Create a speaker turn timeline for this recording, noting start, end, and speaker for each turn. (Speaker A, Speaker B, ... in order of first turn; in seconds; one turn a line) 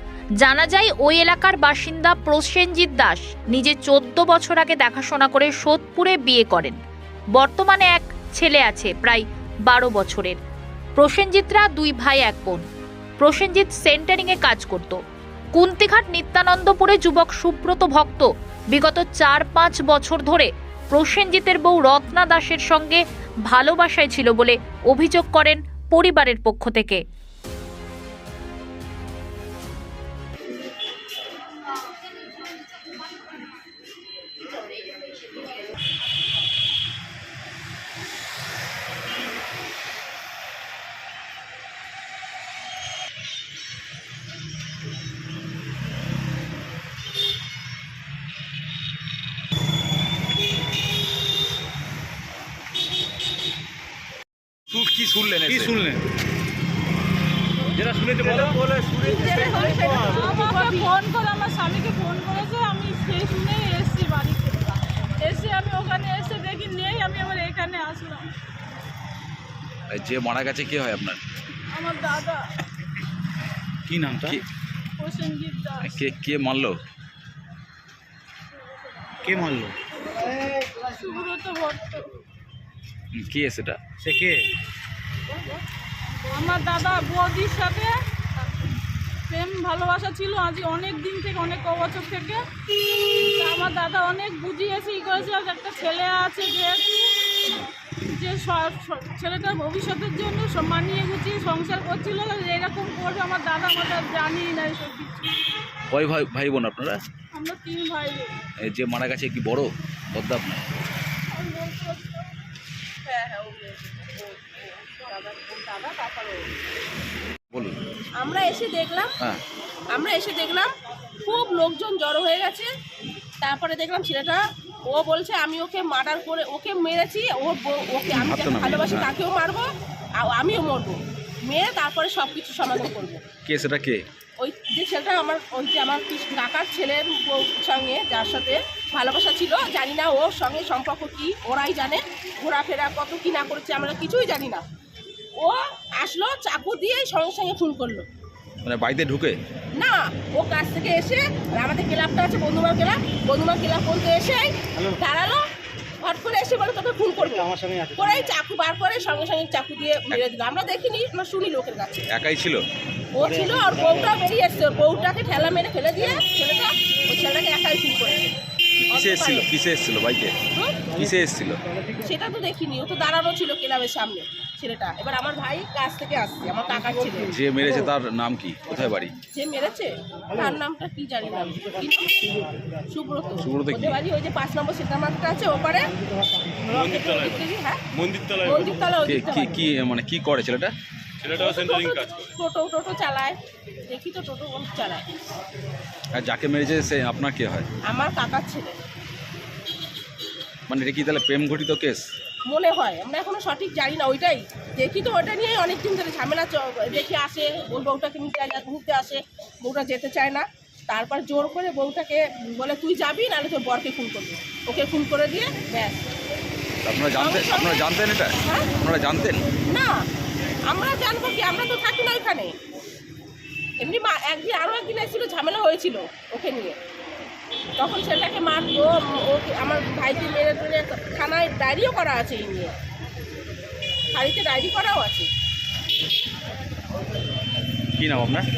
Speaker A: 0.4-6.8
Speaker A: 7.3-10.4
Speaker A: 11.0-12.6
Speaker A: 13.2-15.0
Speaker A: 15.6-27.0
Speaker B: 54.7-55.8
Speaker C: 55.5-56.0
Speaker C: 57.8-58.9
Speaker D: 58.9-60.9
Speaker E: 59.2-68.3
Speaker B: 69.9-71.2
Speaker E: 71.7-72.5
Speaker C: 73.9-74.4
Speaker E: 75.0-76.0
Speaker B: 75.8-76.8
Speaker C: 79.2-79.8
Speaker E: 80.8-82.1
Speaker B: 83.1-83.8
Speaker C: 84.0-84.4
Speaker E: 86.3-88.0
Speaker E: 89.3-92.5
Speaker E: 93.2-97.5
Speaker E: 98.1-105.4
Speaker B: 105.9-107.0
Speaker E: 107.3-108.4
Speaker B: 108.6-110.7
Speaker E: 111.4-112.3
Speaker D: 113.0-116.5
Speaker B: 117.5-117.8
Speaker D: 118.2-119.1
Speaker D: 119.9-120.7
Speaker D: 121.2-122.7
Speaker D: 123.4-133.2
Speaker B: 128.1-129.1
Speaker B: 133.4-134.0
Speaker D: 134.4-144.6
Speaker D: 145.4-148.1
Speaker B: 148.6-149.4
Speaker D: 149.8-155.4
Speaker D: 156.0-162.1
Speaker B: 162.1-162.6
Speaker D: 163.1-168.3
Speaker B: 168.9-170.4
Speaker D: 168.9-169.5
Speaker D: 170.6-170.8
Speaker B: 170.9-171.6
Speaker D: 172.0-177.3
Speaker B: 177.3-179.2
Speaker D: 179.3-182.3
Speaker D: 182.9-185.9
Speaker B: 183.4-184.0
Speaker D: 186.7-187.8
Speaker C: 186.7-188.7
Speaker D: 188.4-189.5
Speaker B: 189.1-190.7
Speaker C: 191.2-192.3
Speaker D: 191.4-195.1
Speaker B: 196.2-197.7
Speaker D: 197.8-198.8
Speaker B: 200.7-202.1
Speaker D: 202.5-216.1
Speaker B: 216.8-219.4
Speaker D: 217.2-217.8
Speaker D: 218.4-218.7
Speaker D: 219.7-220.0
Speaker D: 220.7-222.5
Speaker D: 223.8-226.8
Speaker D: 227.8-232.8
Speaker D: 234.1-235.3
Speaker B: 238.0-238.5